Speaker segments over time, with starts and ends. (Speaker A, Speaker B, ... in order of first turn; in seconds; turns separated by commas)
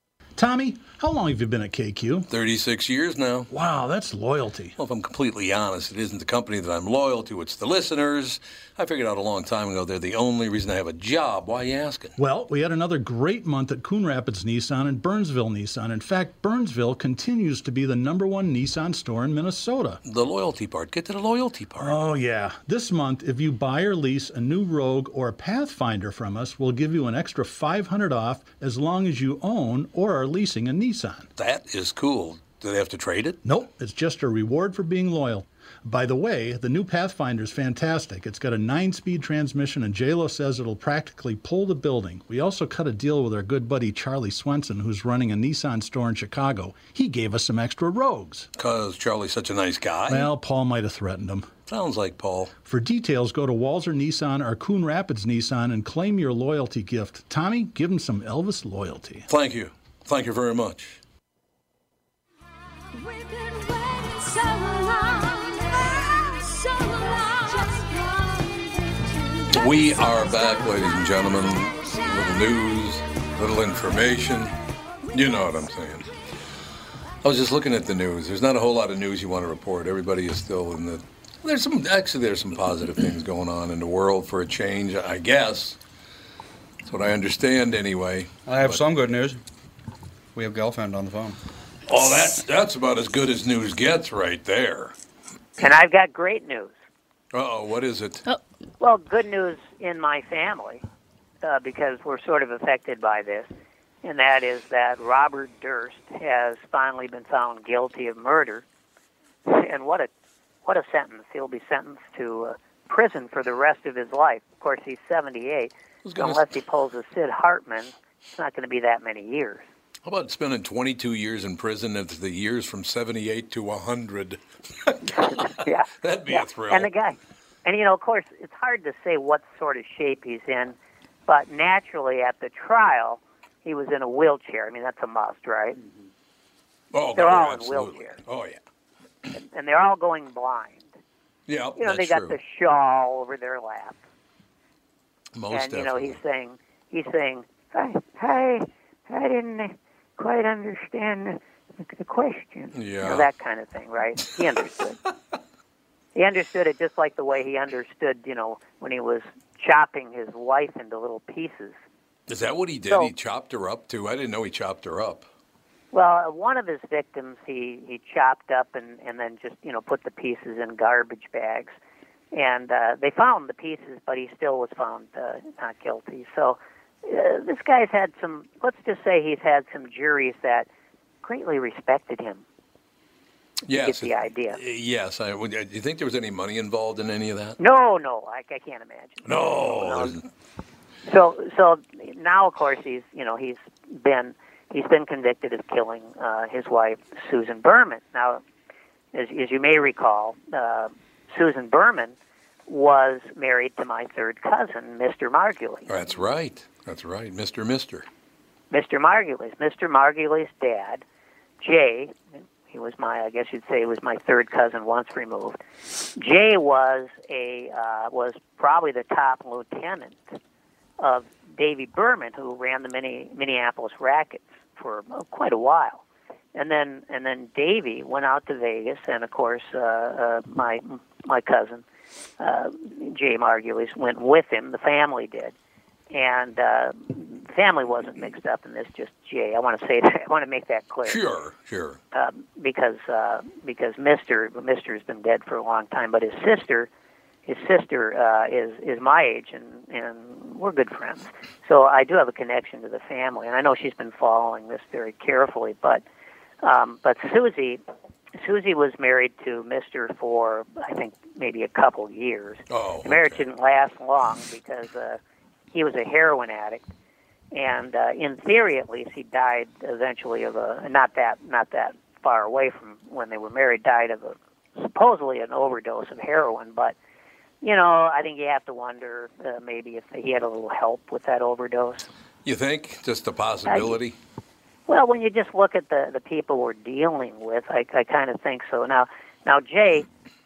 Speaker A: 0.4-2.3, Speaker B: 2.3-3.5, Speaker A: 3.5-4.8, Speaker B: 4.8-12.2, Speaker A: 12.2-20.0, Speaker B: 20.0-22.0, Speaker A: 21.8-31.3, Speaker B: 31.4-33.4, Speaker A: 33.4-48.5, Speaker B: 48.5-50.3, Speaker A: 50.1-51.5, Speaker B: 51.7-52.5, Speaker A: 52.6-59.3, Speaker B: 59.3-61.0, Speaker C: 63.0-69.5, Speaker B: 69.5-74.5, Speaker B: 75.1-76.1, Speaker B: 77.2-85.8, Speaker B: 86.8-88.8, Speaker D: 88.5-89.4, Speaker D: 90.3-91.4, Speaker B: 91.9-95.0, Speaker E: 95.6-96.7, Speaker B: 97.3-98.2, Speaker E: 98.8-100.8, Speaker E: 101.4-103.5, Speaker E: 104.0-108.6, Speaker E: 109.5-110.1, Speaker E: 110.6-119.6, Speaker B: 116.0-116.5, Speaker B: 120.0-126.9, Speaker E: 125.4-130.8, Speaker E: 131.3-135.8, Speaker B: 136.9-138.6, Speaker E: 137.2-138.2, Speaker E: 139.3-140.9, Speaker B: 141.5-142.4, Speaker E: 141.8-144.0, Speaker B: 145.3-146.2, Speaker E: 145.5-155.0, Speaker B: 152.7-153.3, Speaker E: 156.1-161.8, Speaker B: 162.3-165.3, Speaker E: 165.9-171.7, Speaker E: 172.3-180.7, Speaker E: 181.2-182.4, Speaker B: 183.7-187.6, Speaker E: 183.7-184.6, Speaker E: 187.6-190.2, Speaker B: 189.2-190.3, Speaker E: 191.1-198.4, Speaker E: 199.1-202.1, Speaker E: 202.7-205.9, Speaker B: 205.9-208.1, Speaker E: 208.7-211.0, Speaker E: 211.6-215.6, Speaker E: 216.2-220.2, Speaker E: 221.0-226.0, Speaker E: 226.5-231.8, Speaker E: 232.4-235.5, Speaker E: 236.1-241.2, Speaker B: 241.1-242.0, Speaker E: 242.1-246.9, Speaker E: 247.4-256.0, Speaker E: 256.6-257.8, Speaker E: 258.4-265.2, Speaker B: 262.7-263.4, Speaker E: 265.7-266.8, Speaker E: 267.5-276.9, Speaker E: 277.6-282.1, Speaker B: 282.4-284.2, Speaker E: 283.7-283.9, Speaker E: 284.9-290.1